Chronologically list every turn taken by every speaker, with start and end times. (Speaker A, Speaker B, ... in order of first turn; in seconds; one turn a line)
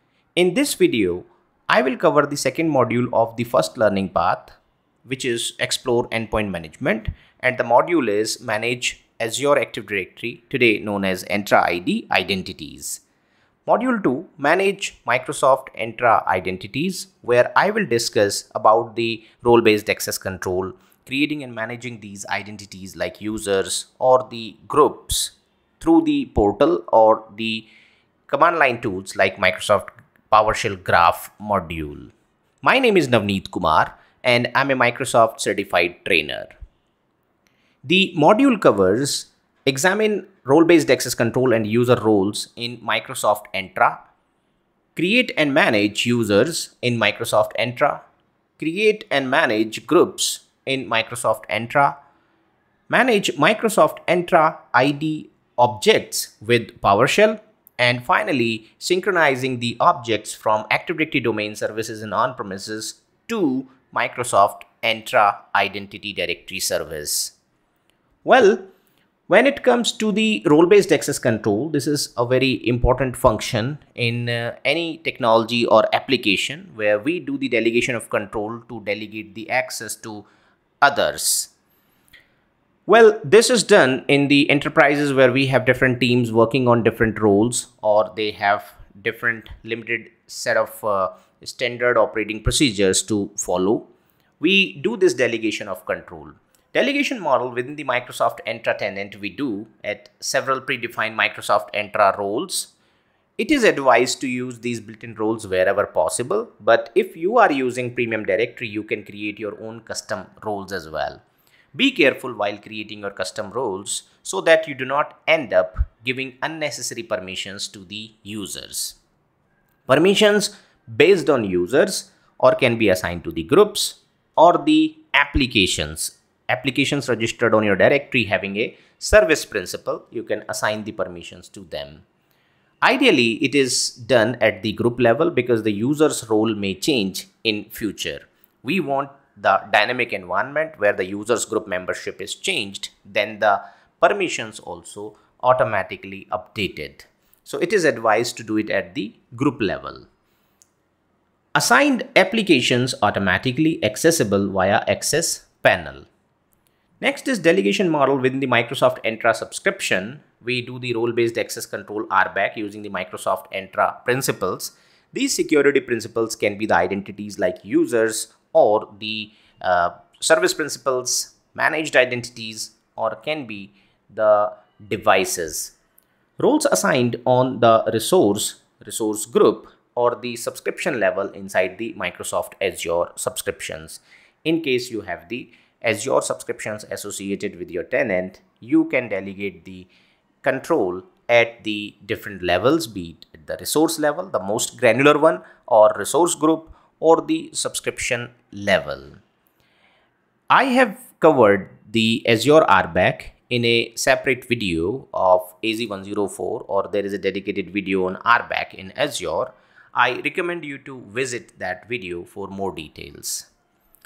Speaker A: 0.3-13.0
Speaker A: 13.7-27.7
Speaker A: 28.3-32.1
Speaker A: 32.6-36.5
Speaker A: 37.8-44.0
Speaker A: 45.0-48.0
Speaker A: 48.6-52.0
Speaker A: 52.9-67.3
Speaker A: 68.2-68.7
Speaker A: 69.3-80.3
Speaker A: 80.8-81.5
Speaker A: 82.9-93.9
Speaker A: 94.4-102.7
Speaker A: 103.4-111.2
Speaker A: 111.7-119.0
Speaker A: 119.9-132.0
Speaker A: 132.8-150.1
Speaker A: 151.6-156.1
Speaker A: 157.0-175.8
Speaker A: 176.4-189.9
Speaker A: 190.4-199.2
Speaker A: 200.5-213.5